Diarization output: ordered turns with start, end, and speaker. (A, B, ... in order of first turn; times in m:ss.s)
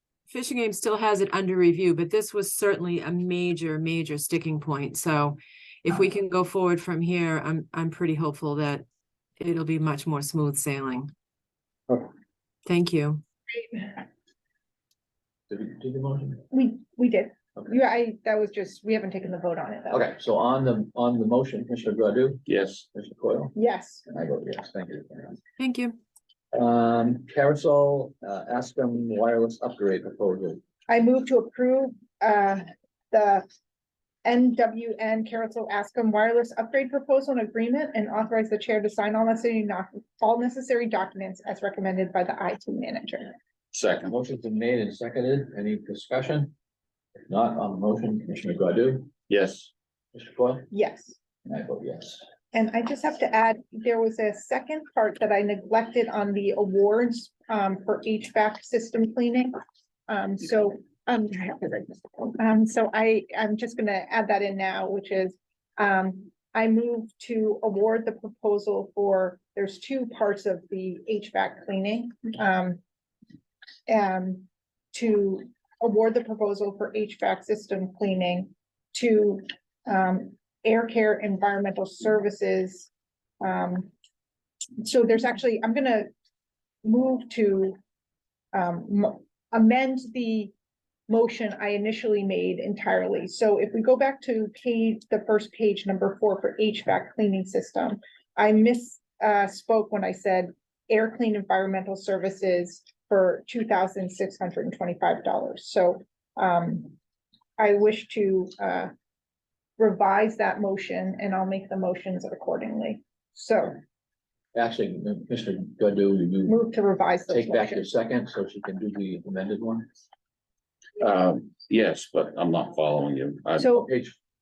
0:00.3-0:08.8 A
0:09.4-0:11.1 A
0:12.6-0:13.2 A
0:13.6-0:13.9 B
0:15.5-0:16.4 C
0:16.5-0:20.1 B
0:19.9-0:23.5 C
0:22.5-0:22.8 D
0:23.5-0:24.0 B
0:24.1-0:25.4 C
0:25.6-0:26.0 A
0:26.5-0:30.6 C
0:30.9-0:33.5 B
0:34.2-0:43.3 B
0:43.7-0:44.1 D
0:44.0-0:46.5 C
0:47.3-0:49.1 C
0:49.3-0:49.7 D
0:50.1-0:50.7 C
0:50.7-0:51.2 B
0:51.4-0:52.2 C
0:52.5-0:59.5 B
1:00.1-1:12.8 B
1:13.9-1:23.9 B
1:24.8-1:26.1 B
1:26.8-1:27.8 B
1:28.5-1:30.5 B
1:31.1-1:47.0 B
1:47.6-1:48.9 B
1:49.8-1:53.8 B
1:54.5-1:56.7 C
1:56.5-1:57.9 B
1:57.3-1:59.8 C
2:01.0-2:03.8 D
2:03.6-2:03.8 B
2:03.6-2:04.2 C